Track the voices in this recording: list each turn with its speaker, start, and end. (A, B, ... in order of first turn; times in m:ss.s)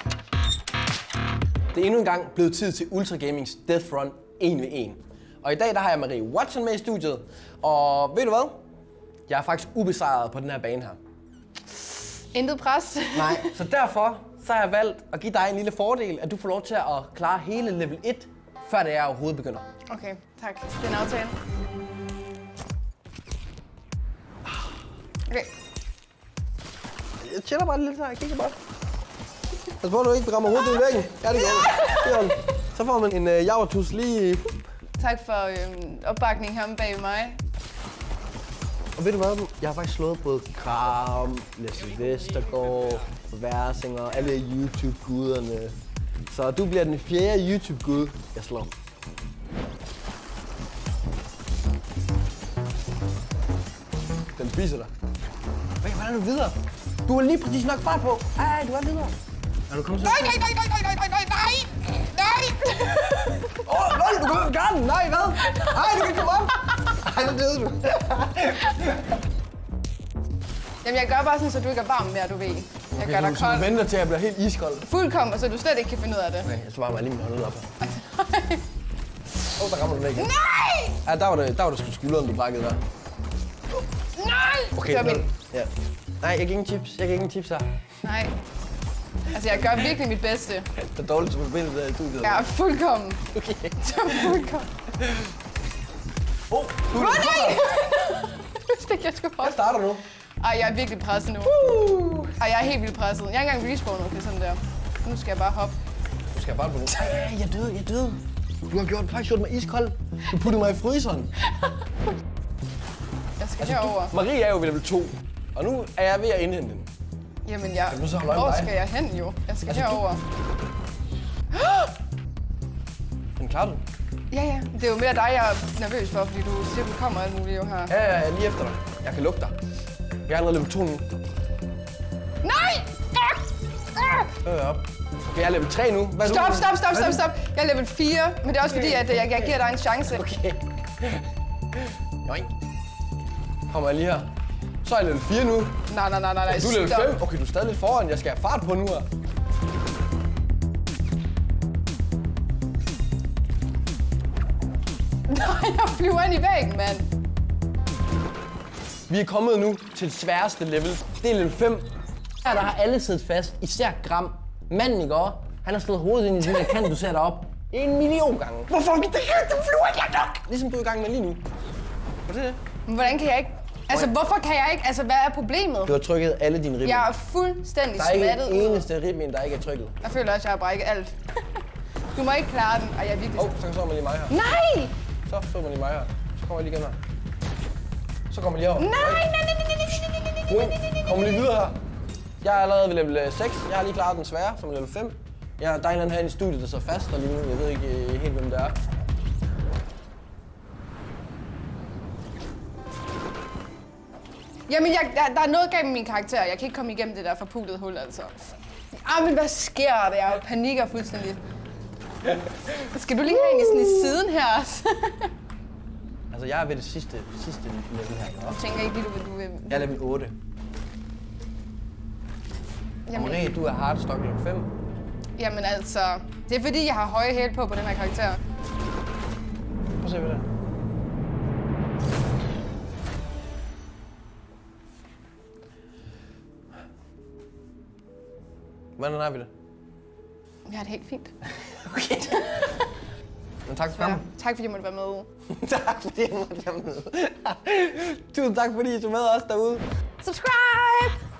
0:01.7-0:08.6 A
0:09.3-0:11.0 A
0:12.1-0:13.5 B
0:13.1-0:19.6 A
0:19.9-0:21.4 B
0:27.2-0:28.6 A
0:29.8-0:34.6 A
0:31.4-0:32.2 B
0:35.0-0:37.4 B
0:39.0-0:45.7 A
0:46.3-0:48.7 A
0:54.4-0:54.9 A
0:55.8-0:59.2 A
0:59.7-1:00.4 A
1:00.0-1:03.6 B
1:03.6-1:08.9 A
1:05.5-1:05.9 B
1:10.8-1:13.7 B
1:12.9-1:14.9 A
1:14.8-1:16.5 B
1:16.4-1:17.7 A
1:17.8-1:18.6 B
1:19.6-1:20.3 A
1:20.2-1:21.0 B
1:21.0-1:22.8 A
1:24.1-1:25.3 B
1:24.8-1:25.7 A
1:26.2-1:27.7 A
1:28.0-1:28.3 B
1:29.3-1:30.7 B
1:30.8-1:32.5 A
1:32.2-1:33.2 B
1:33.3-1:34.4 A
1:33.8-1:34.7 B
1:36.5-1:37.7 A
1:36.9-1:39.7 B
1:39.4-1:40.0 A
1:40.4-1:45.8 B
1:41.4-1:42.4 A
1:46.3-1:51.3 A
1:53.4-1:54.1 B
1:53.6-1:56.9 A
1:57.4-2:00.2 B
1:57.9-1:58.7 A
1:59.7-2:00.0 A
2:01.5-2:01.9 B
2:03.4-2:03.8 A
2:04.3-2:07.9 B
2:07.9-2:09.6 A
2:10.3-2:11.1 A
2:12.4-2:14.4 B
2:14.4-2:17.2 A
2:16.2-2:20.2 B
2:18.7-2:19.5 A
2:20.1-2:21.2 A
2:22.2-2:22.5 A
2:23.7-2:24.3 A
2:24.8-2:25.8 A
2:25.9-2:27.2 B
2:26.5-2:29.1 A
2:35.3-2:37.1 B
2:39.1-2:41.9 A
2:42.4-2:51.4 A
2:52.3-2:52.6 A
2:52.9-2:56.0 B
2:55.8-2:57.1 A
2:56.8-2:58.9 B
2:58.0-3:00.0 A
3:00.0-3:01.2 B
3:02.2-3:03.6 B
3:03.4-3:04.4 A
3:04.3-3:05.0 B
3:05.3-3:07.0 A
3:08.3-3:09.2 A
3:08.8-3:09.8 B
3:10.5-3:11.8 A
3:12.4-3:18.8 A
3:24.7-3:31.4 B
3:32.7-3:35.3 B
3:36.3-3:38.6 A
3:38.4-3:40.0 B
3:39.7-3:40.4 A
3:43.1-3:43.5 B
3:43.1-3:44.7 A
3:45.4-3:48.4 B
3:50.0-3:50.4 A
3:59.0-3:59.5 A
4:00.6-4:01.3 B
4:01.7-4:02.5 A
4:02.2-4:02.8 B
4:03.7-4:04.2 A
4:03.9-4:05.3 B
4:05.5-4:09.8 A
4:10.2-4:11.2 B